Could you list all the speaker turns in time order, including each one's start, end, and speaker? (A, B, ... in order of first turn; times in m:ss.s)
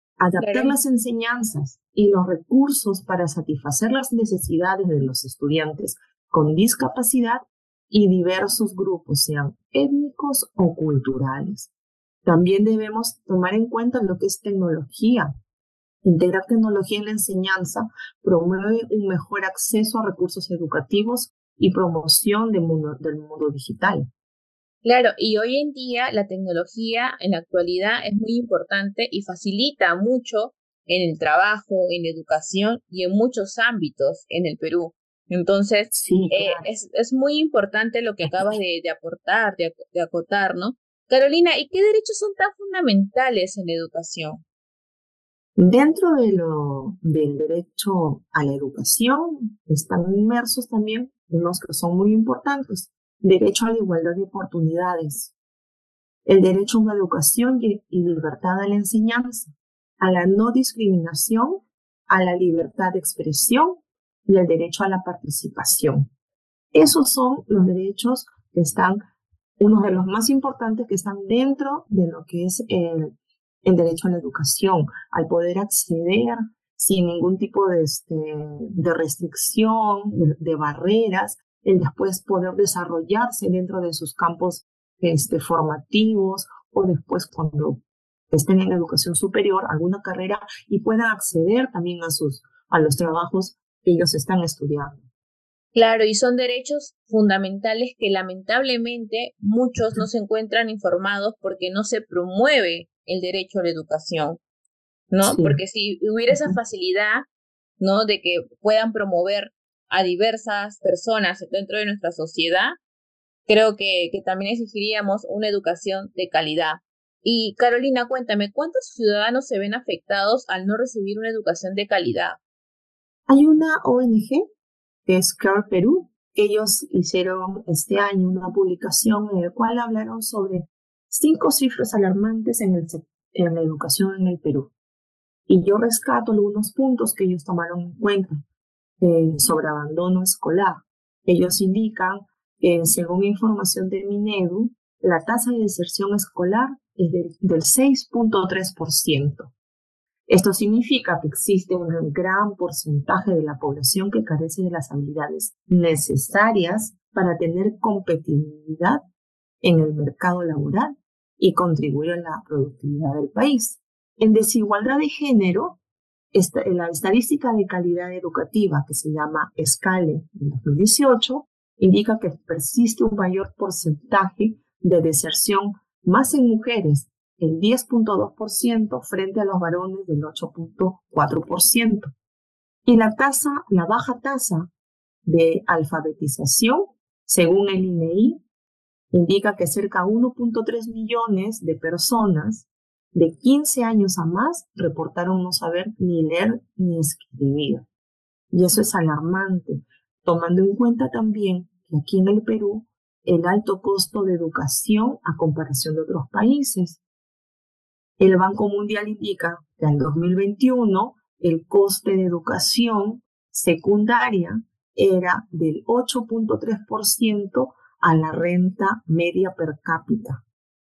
0:00.2-0:11.7 A
0:00.4-0:00.8 B
0:12.2-0:15.3 A
0:16.0-0:24.1 A
0:24.8-0:44.4 B
0:35.9-0:36.6 A
0:45.6-0:55.3 A
0:56.2-1:06.1 A
1:06.7-1:09.0 A
1:09.6-1:13.1 A
1:13.6-1:35.0 A
1:35.7-1:44.4 B
1:45.1-1:47.2 B
1:45.2-1:45.6 A
1:46.3-1:46.6 A
1:47.8-1:52.8 B
1:53.5-2:02.4 B
2:03.3-2:04.4 A
2:05.0-2:14.7 A
2:15.5-2:18.4 A
2:19.0-2:29.5 A
2:30.3-2:39.0 A
2:39.6-2:45.8 A
2:46.3-3:02.1 A
3:02.8-3:04.7 A
3:05.2-3:08.4 A
3:09.1-3:17.8 A
3:18.5-3:27.0 A
3:28.2-3:40.4 A